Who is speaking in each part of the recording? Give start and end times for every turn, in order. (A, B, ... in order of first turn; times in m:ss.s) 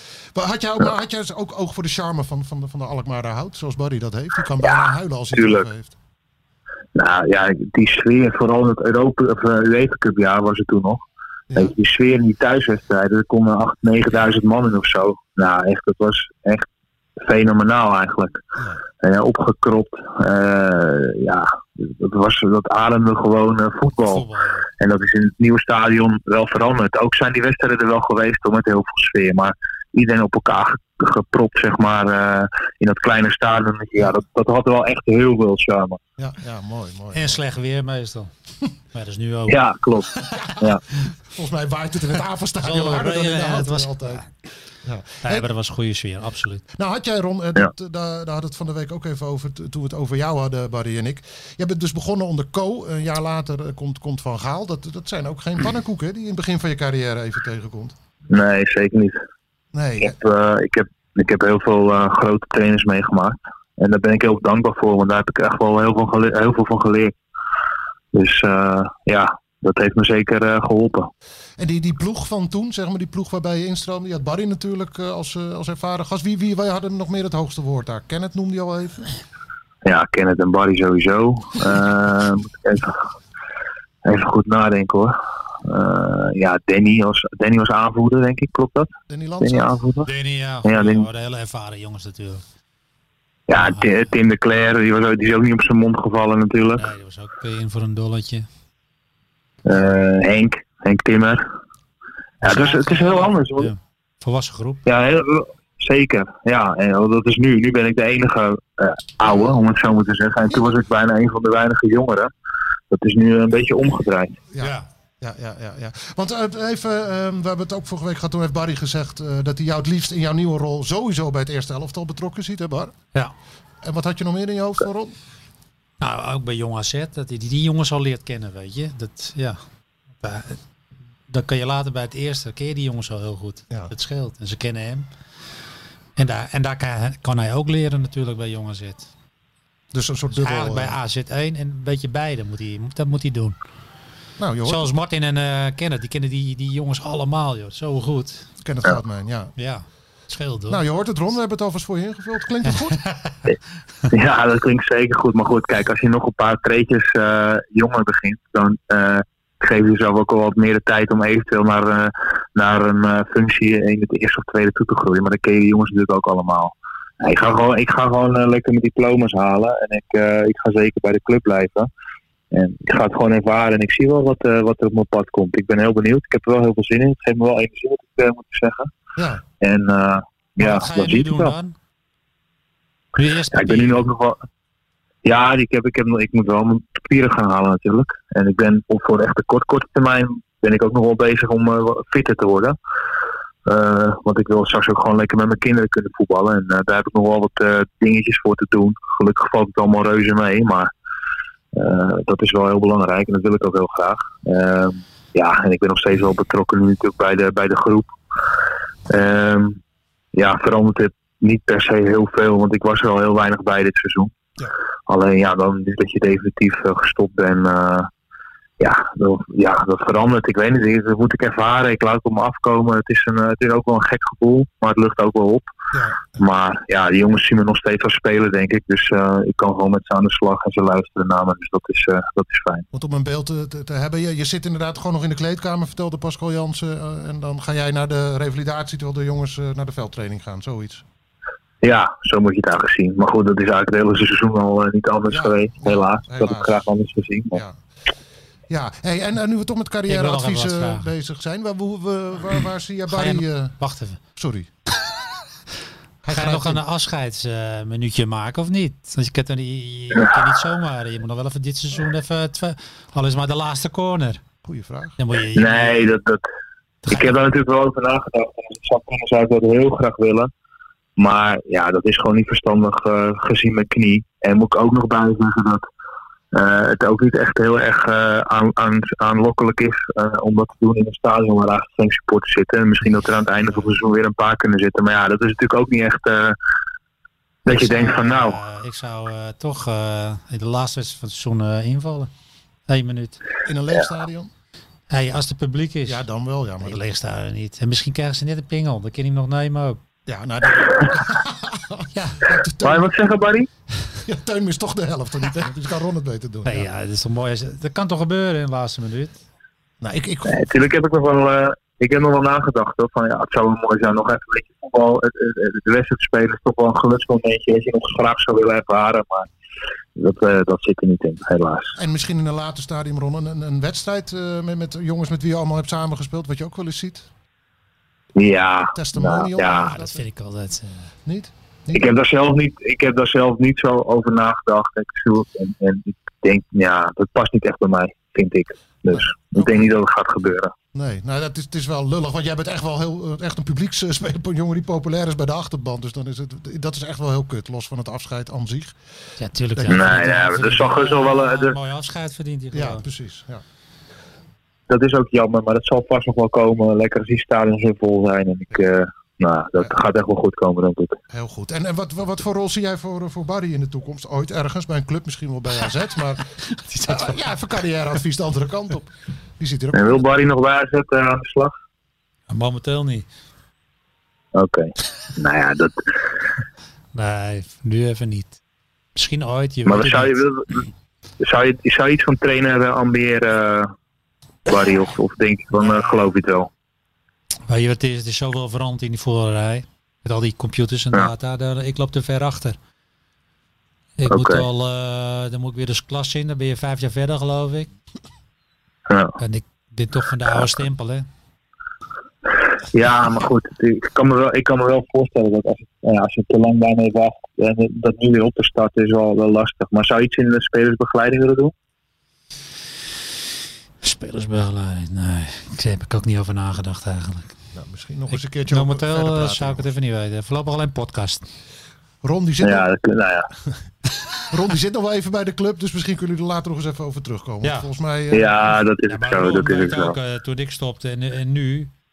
0:00.3-0:06.0 A
0:04.6-0:05.7 B
0:07.0-0:11.0 B
0:11.6-0:16.7 B
0:17.2-0:18.4 B
0:18.6-0:18.8 A
0:19.0-0:24.2 B
0:24.1-0:24.7 C
0:24.8-0:36.0 B
0:36.2-0:37.4 A
0:37.1-0:38.3 C
0:38.9-0:40.5 C
0:39.5-0:40.8 B
0:41.3-0:44.2 A
0:42.6-0:44.3 C
0:44.8-0:45.5 A
0:45.2-0:46.6 C
0:46.7-0:58.0 A
0:58.3-0:59.2 B
0:59.7-1:00.2 A
1:00.0-1:07.1 B
1:08.1-1:11.1 B
1:11.6-1:19.1 A
1:19.8-1:23.0 B
1:24.0-1:28.9 B
1:29.1-1:29.7 A
1:29.4-1:30.1 B
1:30.0-1:32.4 C
1:30.6-1:31.1 B
1:33.5-1:36.8 B
1:33.6-1:33.9 C
1:36.8-1:38.5 C
1:39.6-1:41.5 B
1:42.4-1:43.7 B
1:42.4-1:44.8 C
1:44.9-1:52.3 B
1:52.9-1:54.4 B
1:54.5-2:02.9 A
1:54.6-1:54.9 C
2:03.8-2:05.2 A
2:06.0-2:09.6 C
2:10.2-2:10.6 C
2:11.3-2:15.1 C
2:16.2-2:19.1 C
2:19.9-2:21.0 A
2:20.4-2:23.6 C
2:24.4-2:24.9 A
2:24.6-2:28.5 C
2:28.6-2:29.5 A
2:29.6-2:30.8 C
2:30.7-2:33.0 A
2:32.9-2:33.3 C
2:34.1-2:51.9 B
2:52.5-2:58.9 B
2:59.2-2:59.4 A
2:59.6-3:01.6 B
3:00.6-3:01.7 C
3:03.2-3:04.1 C
3:03.5-3:04.4 B
3:05.2-3:12.8 B
3:13.7-3:20.9 B
3:21.7-3:28.1 B
3:29.1-3:29.8 B
3:30.3-3:34.3 B
3:35.1-3:38.1 B
3:38.8-3:45.7 B
3:45.9-3:46.4 A
3:46.4-3:52.9 B
3:52.9-4:01.0 A
4:01.8-4:07.6 B
4:05.3-4:06.8 A
4:07.5-4:07.8 A
4:08.7-4:13.8 A
4:10.1-4:11.1 C
4:13.1-4:14.2 C
4:14.4-4:14.7 A
4:16.2-4:16.8 A
4:16.3-4:24.4 C
4:24.6-4:25.2 A
4:25.2-4:26.0 C
4:25.6-4:26.4 B
4:27.0-4:27.4 C
4:27.1-4:30.5 B
4:31.2-4:35.8 B
4:36.5-4:46.6 B
4:47.7-4:48.6 B
4:47.7-4:52.3 C
4:52.9-4:53.4 C
4:53.6-4:54.5 A
4:55.1-4:56.2 C
4:56.1-4:57.0 A
4:56.8-5:00.0 C
5:00.3-5:03.1 A
5:02.1-5:02.5 C
5:02.8-5:03.7 B
5:04.2-5:06.9 A
5:06.6-5:09.4 C
5:10.0-5:10.6 A
5:10.5-5:19.5 B
5:20.2-5:22.0 B
5:22.0-5:27.3 A
5:28.4-5:29.9 B
5:29.0-5:30.2 A
5:29.6-5:31.1 C
5:31.3-5:32.1 A
5:31.9-5:40.7 B
5:39.1-5:39.9 A
5:40.9-5:48.9 A
5:49.4-5:53.0 C
5:49.8-5:50.1 A
5:49.9-5:51.8 B
5:52.7-5:53.6 A
5:54.9-6:01.2 B
6:01.3-6:06.5 A
6:06.8-6:07.4 C
6:07.0-6:10.3 A
6:09.9-6:11.7 B
6:12.5-6:13.3 C
6:14.6-6:16.1 B
6:17.1-6:18.6 C
6:19.2-6:20.4 C
6:19.9-6:20.8 B
6:21.4-6:23.9 B
6:24.7-6:26.7 B
6:25.7-6:26.2 C
6:27.7-6:32.8 C
6:34.2-6:37.9 C
6:34.3-6:34.6 B
6:39.1-6:39.4 B
6:39.4-6:41.3 C
6:42.9-6:51.7 B
6:54.0-6:57.6 C
6:57.7-6:59.9 A
6:58.7-7:01.4 C
7:02.2-7:02.9 A
7:02.6-7:03.5 B
7:04.5-7:08.6 A
7:07.6-7:07.9 C
7:08.3-7:10.2 B
7:09.1-7:11.9 C